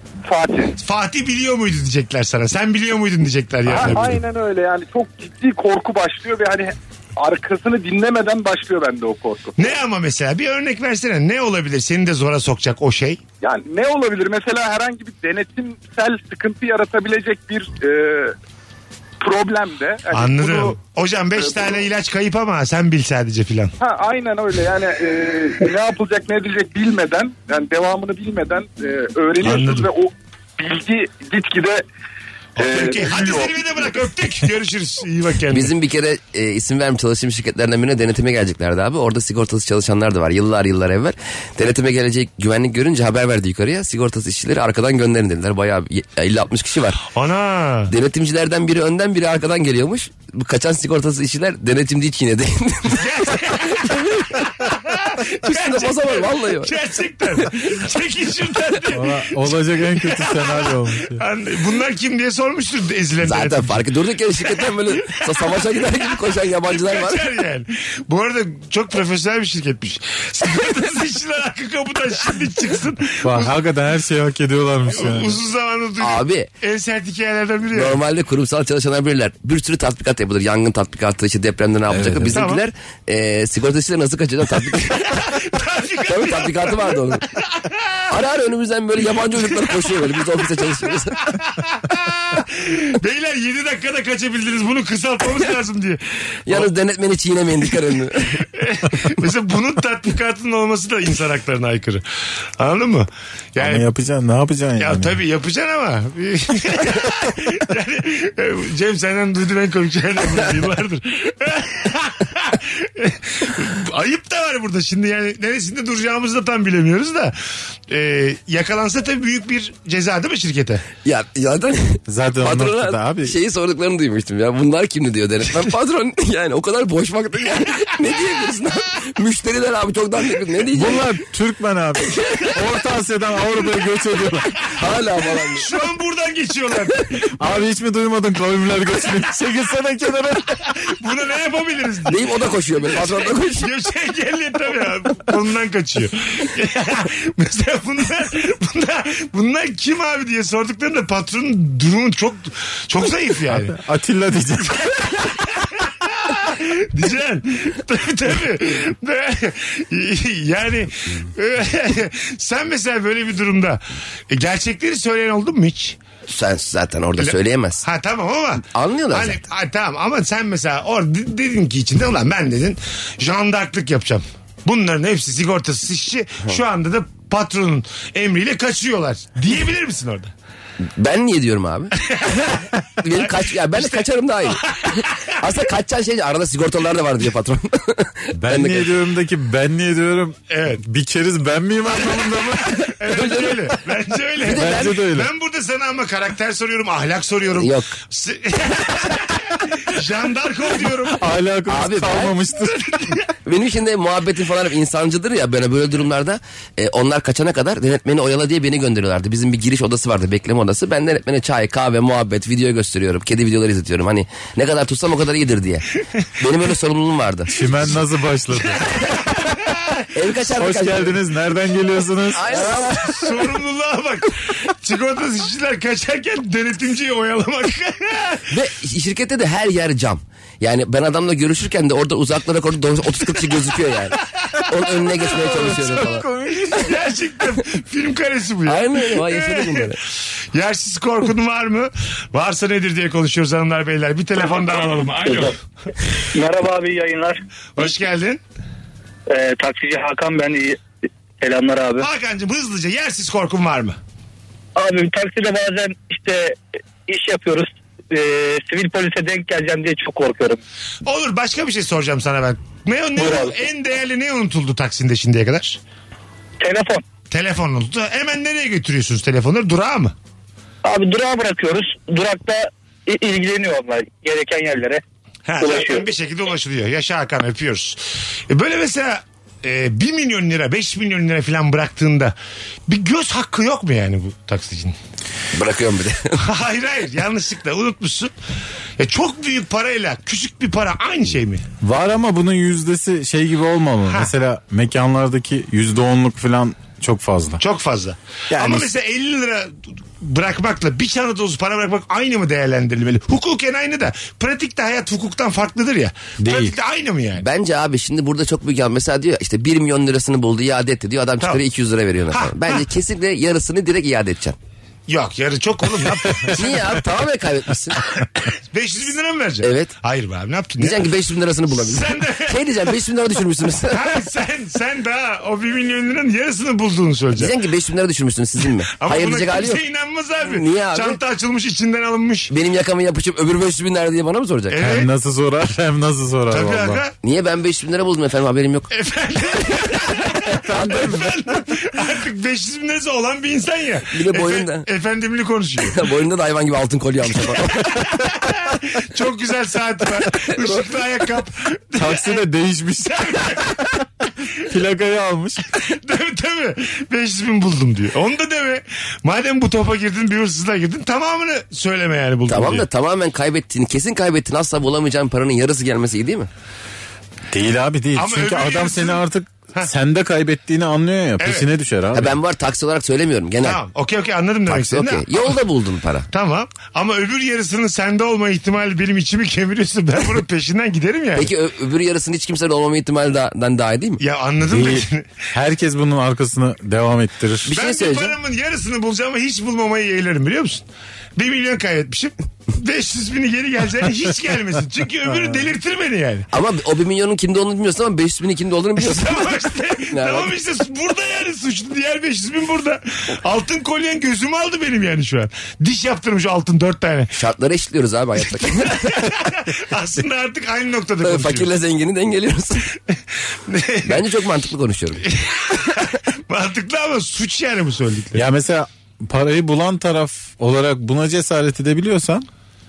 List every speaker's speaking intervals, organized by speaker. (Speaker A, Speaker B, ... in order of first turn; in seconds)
Speaker A: 0.2-0.8, 3.6-9.6, 13.4-18.4, 19.2-20.8, 21.4-21.8, 23.8-31.8, 32.6-33.5
Speaker B: 0.8-4.2, 9.6-13.2, 20.1-23.7, 29.4-29.9, 32.6-35.7, 47.1-47.9, 53.0-63.9, 64.4-65.2, 66.6-73.5, 74.9-78.0, 82.3-82.6, 85.0-88.0, 91.3-96.7, 98.5-102.0, 102.6-103.9, 104.8-117.4, 117.9-120.8, 135.6-137.4, 140.7-142.3, 142.9-153.8, 155.4-166.0, 167.2-180.3, 182.0-182.7, 183.2-185.3, 190.5-190.8, 192.8-201.2, 219.5-219.9, 222.7-228.5, 236.7-239.9, 240.5-245.6, 247.8-248.4, 252.0-254.0, 261.0-265.8, 267.3-270.1, 275.5-282.4, 282.9-285.0, 286.4-288.3, 289.0-291.6, 297.6-307.4, 312.3-312.8, 315.1-316.8, 318.7-321.1, 321.7-322.6, 323.9-327.5, 329.0-332.5, 334.7-335.1, 336.5-337.1, 338.9-346.0, 347.8-352.4, 353.1-353.7, 355.7-362.9, 368.2-369.2, 371.4-371.7, 373.6-375.6, 376.3-381.5, 384.2-385.3, 387.7-390.9, 391.4-396.5, 399.0-407.3, 408.7-411.7, 413.7-414.2, 415.2-418.4
Speaker C: 35.5-47.0, 47.9-54.5, 55.4-56.7, 63.2-67.2, 76.0-76.5, 77.7-85.2, 86.1-87.2, 88.1-91.2, 96.5-98.4, 121.0-131.0, 134.8-135.7, 142.1-143.7, 166.3-167.8, 168.7-169.4, 180.8-188.9, 193.0-193.6, 194.4-195.0, 197.6-197.9, 201.7-202.3, 203.5-215.9, 216.4-217.5, 220.1-221.2, 222.3-223.3, 228.5-236.2, 238.7-240.0, 285.5-286.4, 307.4-314.6, 316.5-318.2, 319.6-319.9, 320.8-324.1, 327.4-329.8, 330.4-331.2, 332.5-334.8, 337.2-338.9, 340.7-341.2, 344.1-344.9, 345.9-348.0, 362.5-366.5, 372.1-373.8, 374.7-376.3, 381.4-384.2, 387.7-388.3, 396.5-399.5, 400.1-400.5, 407.3-409.2, 411.2-412.9, 414.1-415.2
Speaker D: 58.9-61.2, 73.2-75.4, 81.9-82.4, 103.6-105.2, 122.1-123.4, 130.7-134.6, 137.4-140.6, 153.5-154.9, 188.3-192.9, 194.5-195.3, 201.2-203.1, 217.5-219.0, 220.5-222.9, 235.2-236.9, 291.8-297.6, 298.5-298.9, 306.4-306.7, 334.8-337.0, 351.9-354.0, 354.6-355.6, 367.5-372.4, 384.7-387.7, 418.4-422.5
Speaker E: 245.2-245.5, 246.3-247.4, 249.3-250.8, 251.4-252.1, 254.8-256.6, 257.1-260.6, 263.2-263.6, 266.6-267.0, 270.8-275.0, 275.6-276.1